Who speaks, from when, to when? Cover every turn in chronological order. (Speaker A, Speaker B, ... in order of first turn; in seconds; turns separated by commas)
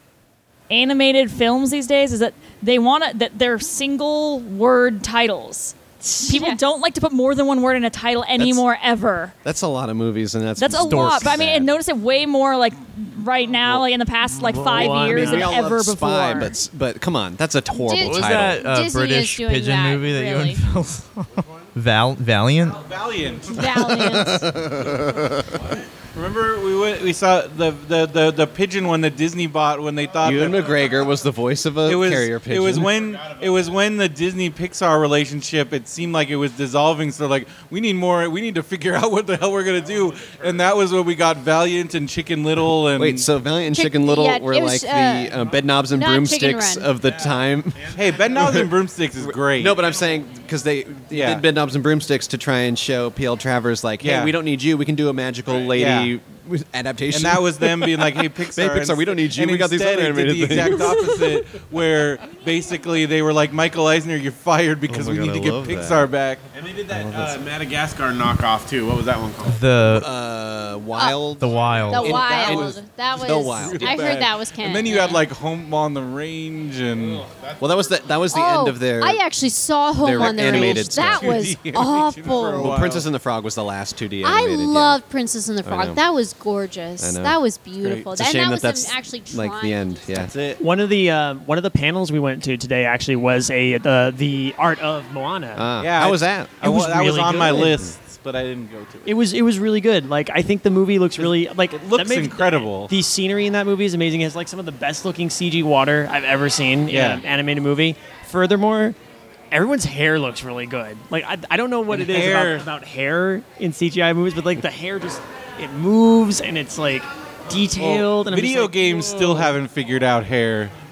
Speaker A: 0.7-9.3, Speaker B: 6.2-6.6, Speaker C: 8.4-8.6, Speaker C: 9.4-11.7, Speaker A: 10.6-16.6, Speaker D: 10.8-11.4, Speaker E: 14.4-15.6, Speaker C: 14.6-18.6, Speaker B: 17.8-20.6, Speaker D: 18.0-22.8, Speaker F: 21.3-21.7, Speaker G: 22.6-24.0, Speaker B: 23.5-24.5, Speaker C: 23.8-25.6, Speaker G: 25.5-30.9, Speaker F: 30.0-31.1, Speaker C: 30.2-32.9, Speaker G: 31.9-43.3, Speaker F: 32.7-33.9, Speaker F: 39.7-40.8, Speaker C: 43.0-61.1, Speaker B: 43.7-45.3, Speaker B: 45.9-46.9, Speaker F: 47.0-48.7, Speaker G: 47.9-49.8, Speaker F: 49.8-50.2, Speaker G: 51.1-51.4, Speaker G: 54.0-54.3, Speaker F: 55.5-55.8, Speaker G: 55.8-56.1, Speaker G: 57.1-66.4, Speaker C: 64.9-66.1, Speaker F: 66.5-70.0, Speaker C: 66.9-67.4, Speaker D: 69.5-70.1, Speaker C: 69.9-74.2, Speaker D: 71.4-72.2, Speaker F: 71.4-71.9, Speaker B: 71.9-75.2, Speaker G: 72.0-77.3, Speaker F: 77.0-78.2, Speaker C: 77.6-79.2, Speaker B: 78.3-82.8, Speaker C: 80.0-81.5, Speaker G: 80.2-83.1, Speaker C: 82.5-85.0, Speaker B: 84.2-89.9, Speaker C: 85.6-86.0, Speaker C: 87.0-87.4, Speaker G: 87.8-88.1, Speaker C: 88.1-90.3, Speaker G: 90.1-90.6, Speaker E: 90.6-95.7, Speaker C: 95.5-96.5, Speaker G: 95.8-99.2, Speaker E: 96.6-97.9, Speaker E: 99.0-109.0, Speaker G: 101.2-102.9, Speaker G: 106.9-107.2, Speaker E: 109.5-119.5, Speaker G: 111.9-112.7, Speaker G: 117.8-120.7